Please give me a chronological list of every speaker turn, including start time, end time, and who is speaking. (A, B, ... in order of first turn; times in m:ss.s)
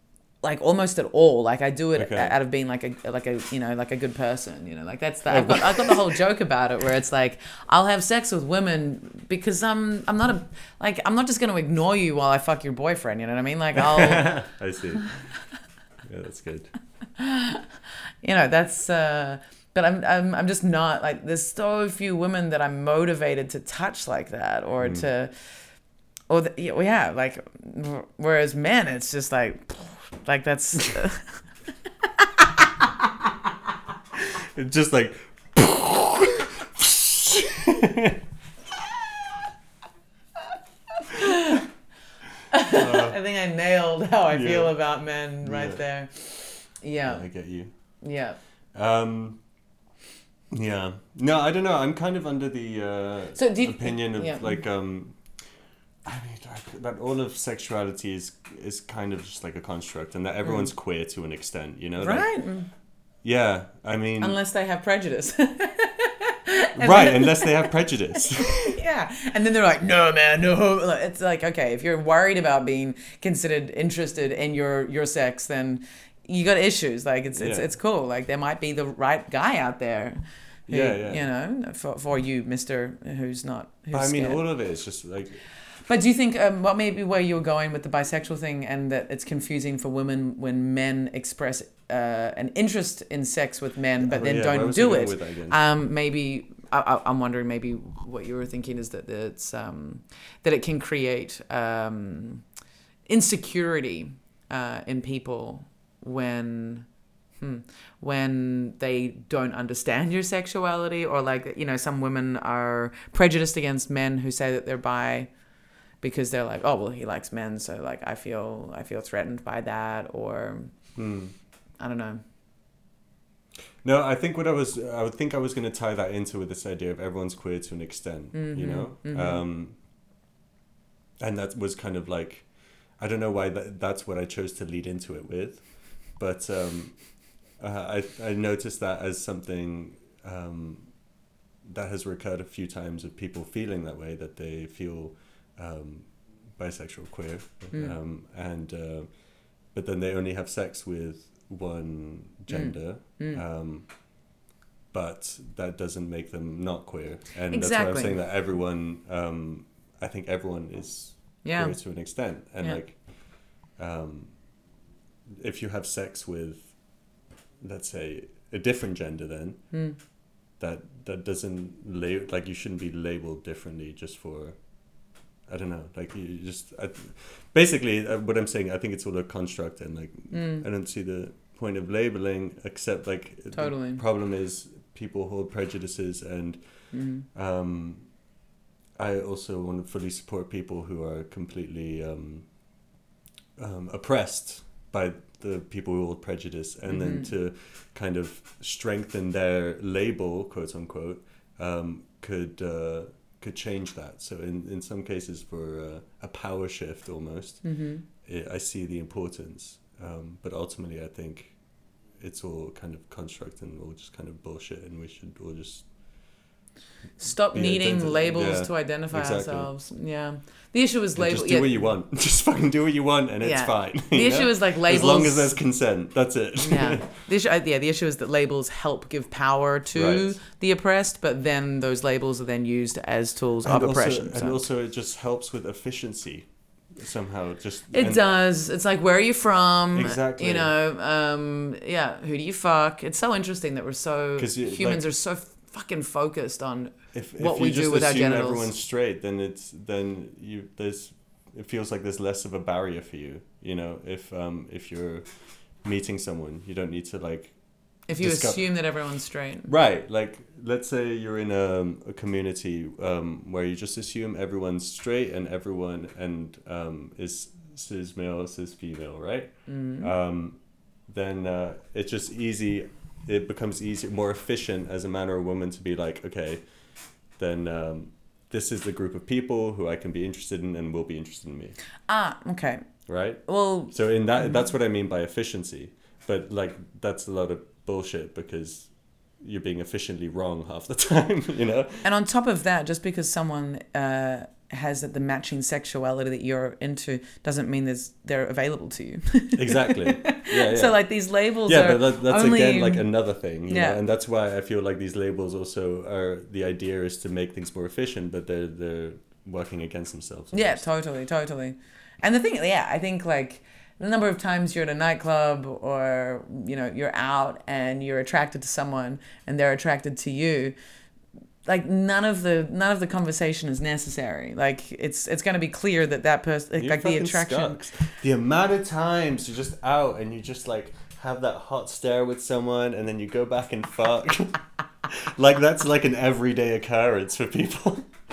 0:00.4-0:14.4 A
0:02.0-0:02.4 B
0:05.3-0:06.2 B
0:13.8-0:15.1 B
0:16.0-0:16.7 B
0:17.2-0:17.7 A
0:18.2-0:25.3 A
0:24.8-0:25.1 B
0:26.3-0:31.3 A
0:32.2-0:32.9 A
0:34.3-0:38.2 B
0:41.0-0:41.7 A
0:42.5-0:47.3 A
0:42.7-0:43.2 B
0:44.3-0:44.7 B
0:45.4-0:45.8 B
0:47.0-0:47.7 B
0:48.0-0:48.4 A
0:48.7-0:49.4 B
0:50.5-0:55.2 B
0:53.4-0:54.6 A
0:56.0-1:02.3 B
1:02.0-1:02.7 A
1:03.2-1:04.4 B
1:04.2-1:20.2 A
1:06.8-1:08.8 B
1:17.4-1:17.7 B
1:20.7-1:21.2 B
1:20.7-1:24.4 A
1:23.9-1:25.4 B
1:25.9-1:42.4 A
1:34.0-1:35.6 B
1:43.1-1:46.9 A
1:47.4-1:55.3 A
1:56.0-2:00.7 A
2:01.0-2:01.3 B
2:01.8-2:02.2 A
2:03.8-2:09.8 B
2:08.3-2:09.4 A
2:11.2-2:12.5 B
2:13.0-2:15.6 B
2:16.2-2:17.0 B
2:17.6-2:20.9 B
2:21.6-2:29.1 B
2:29.7-2:33.9 B
2:32.5-2:33.4 A
2:34.9-2:43.0 B
2:37.5-2:38.2 A
2:41.4-2:41.8 A
2:43.8-2:44.3 B
2:45.3-2:46.7 B
2:47.6-2:49.6 B
2:49.7-2:50.0 A
2:50.6-2:54.6 B
2:55.5-3:06.6 B
3:00.3-3:00.6 A
3:03.5-3:04.0 A
3:06.9-3:07.3 A
3:07.3-3:08.0 B
3:09.0-3:12.5 B
3:13.6-3:27.6 B
3:16.9-3:17.3 A
3:27.6-3:28.0 A
3:28.2-3:31.6 B
3:32.2-3:35.8 B
3:37.2-3:41.8 A
3:37.5-3:39.7 B
3:41.2-3:47.1 B
3:43.4-3:45.6 A
3:46.6-3:54.6 A
3:49.9-3:50.4 B
3:53.6-3:58.2 B
3:57.9-4:08.7 A
3:59.9-4:00.7 B
4:04.4-4:05.0 B
4:07.1-4:15.2 B
4:15.8-4:17.6 B
4:18.1-4:19.7 A
4:18.2-4:18.7 B
4:19.7-4:36.6 B
4:29.7-4:30.1 A
4:37.4-4:41.8 B
4:42.1-4:42.8 A
4:43.1-4:48.9 B
4:43.5-4:43.9 A
4:49.4-4:52.0 B
4:52.0-5:03.1 A
4:59.6-5:01.0 B
5:01.7-5:10.8 B
5:03.7-5:04.0 A
5:10.5-5:20.8 A
5:21.7-5:27.8 A
5:26.8-5:38.1 B